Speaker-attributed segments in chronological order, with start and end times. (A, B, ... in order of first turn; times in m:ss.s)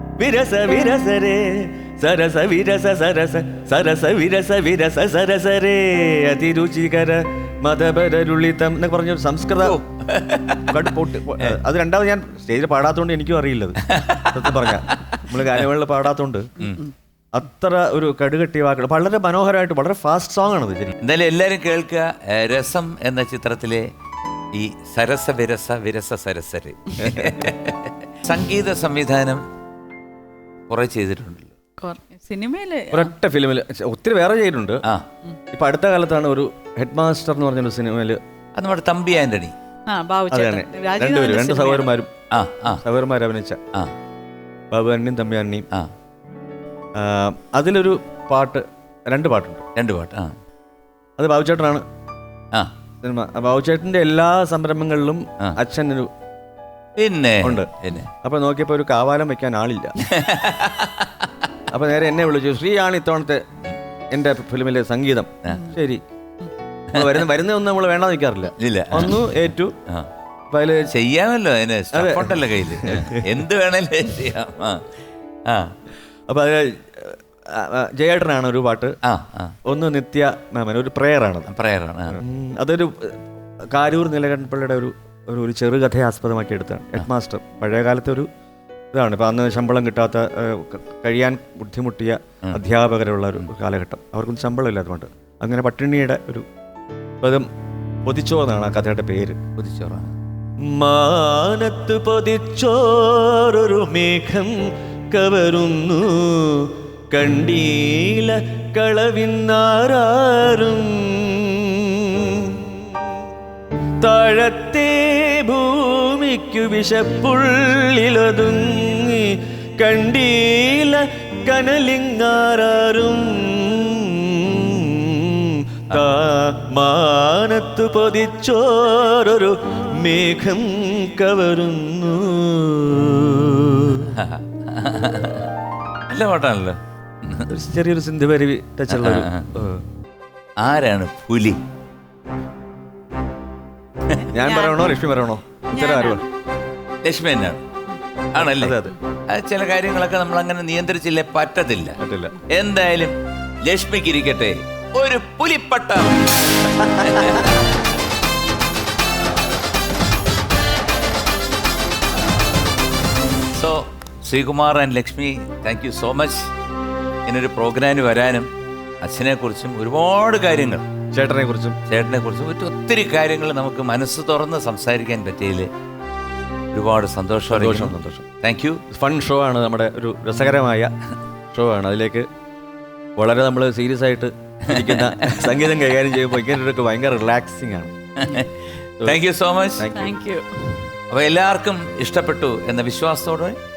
0:00.2-0:09.8 A
0:09.6-0:11.5 B
0:10.7-0:16.5 A
0:13.9-0:15.6 B
0:16.6-0:16.8 B
0:17.3-0:20.9 A
0:21.0-0:23.9 B
0:24.5-0:29.4 B
0:27.0-0:27.5 A
0:30.7-0:31.5 B
0:31.8-0:33.1 C
0:32.9-0:34.8 A
0:35.5-0:38.2 A
0:38.6-0:39.5 B
0:39.9-0:41.9 C
0:40.3-0:42.1 A
0:42.3-0:42.8 B
0:42.8-0:43.6 A
0:44.7-0:45.7 A
0:47.0-0:49.6 A
0:49.8-0:50.4 B
0:51.2-0:51.8 A
0:53.0-0:56.1 A
0:57.0-0:58.1 B
0:57.4-0:57.7 A
0:58.2-1:00.0 A
1:00.0-1:01.3 B
1:01.7-1:03.4 A
1:04.1-1:06.0 A
1:05.5-1:05.7 C
1:06.9-1:09.7 A
1:06.9-1:07.2 B
1:08.5-1:10.1 B
1:10.5-1:10.9 A
1:10.9-1:15.7 B
1:11.9-1:13.2 A
1:16.3-1:18.9 A
1:19.0-1:19.6 B
1:19.7-1:21.5 A
1:21.5-1:22.2 B
1:22.1-1:23.2 A
1:23.7-1:28.3 A
1:28.9-1:36.4 A
1:37.2-1:37.5 A
1:38.0-1:39.4 A
1:39.6-1:40.1 B
1:40.6-1:52.7 A
1:54.0-2:14.1 A
2:14.1-2:15.5 B
2:16.1-2:17.5 B
2:17.5-2:19.8 A
2:18.9-2:19.5 B
2:20.6-2:21.6 B
2:24.2-2:24.9 C
2:24.3-2:26.2 A
2:25.7-2:26.3 C
2:27.0-2:27.6 B
2:28.3-2:28.8 B
2:28.4-2:29.0 A
2:29.3-2:37.6 B
2:32.0-2:32.4 A
2:37.0-2:37.3 A
2:43.5-2:46.5 B
2:47.2-2:48.5 B
2:49.0-2:50.8 B
2:51.1-2:51.8 A
2:51.9-2:55.7 B
2:56.7-2:58.8 B
2:57.5-2:58.3 A
2:58.9-3:00.9 A
3:01.5-3:02.3 A
3:03.2-3:07.9 A
3:04.7-3:05.5 B
3:08.2-3:09.9 B
3:09.8-3:10.2 A
3:09.9-3:10.8 C
3:11.1-3:13.6 B